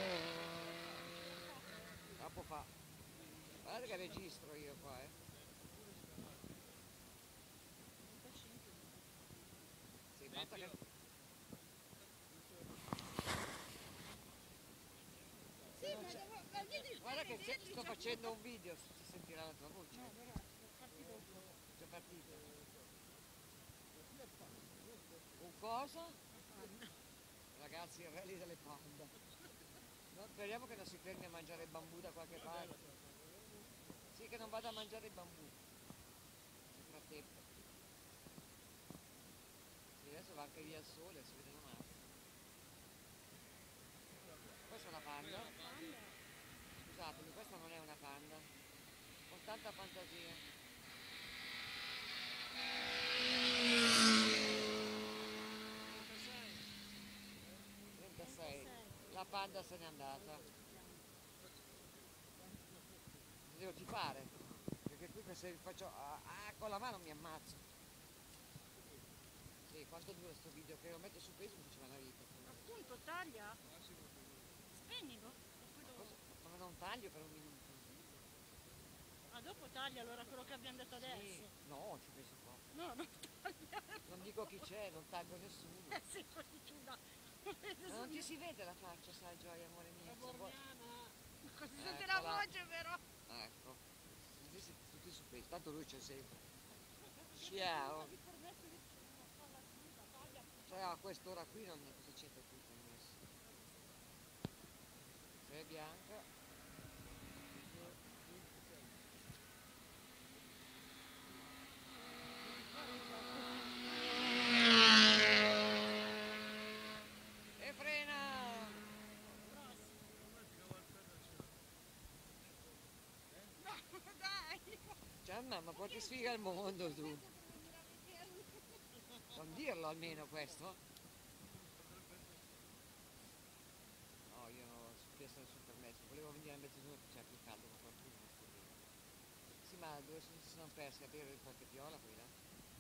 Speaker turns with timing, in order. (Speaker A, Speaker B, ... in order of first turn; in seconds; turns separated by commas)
Speaker A: 2.1-2.7, Speaker A: 3.6-5.2, Speaker B: 8.0-9.1, Speaker A: 10.2-10.8, Speaker B: 15.7-18.3, Speaker A: 15.8-16.3, Speaker A: 16.9-20.2, Speaker B: 19.9-21.4, Speaker A: 21.8-22.4, Speaker A: 25.4-26.2, Speaker B: 26.5-26.9, Speaker A: 27.5-29.1, Speaker A: 30.1-32.8, Speaker A: 34.1-35.5, Speaker A: 36.7-37.3, Speaker A: 40.0-42.1, Speaker A: 44.6-45.5, Speaker B: 45.5-46.2, Speaker A: 46.8-48.5, Speaker A: 49.3-50.5, Speaker A: 57.9-60.5, Speaker B: 58.2-59.1, Speaker B: 60.7-61.0, Speaker A: 63.4-67.6, Speaker A: 69.7-72.7, Speaker B: 72.5-73.6, Speaker B: 74.7-76.2, Speaker A: 75.9-78.1, Speaker B: 79.2-81.5, Speaker A: 80.9-82.6, Speaker B: 82.7-84.3, Speaker A: 84.0-86.0, Speaker B: 85.9-88.3, Speaker A: 87.9-90.6, Speaker B: 91.4-93.0, Speaker A: 91.7-92.5, Speaker A: 93.3-96.5, Speaker B: 97.2-100.7, Speaker A: 97.3-98.1, Speaker A: 100.7-103.2, Speaker A: 105.4-106.3, Speaker B: 112.5-113.8, Speaker A: 117.6-118.8, Speaker B: 119.4-120.0, Speaker B: 123.6-125.0, Speaker A: 125.2-127.3, Speaker B: 125.8-128.8, Speaker A: 129.3-130.8, Speaker A: 134.3-138.8, Speaker A: 139.6-142.3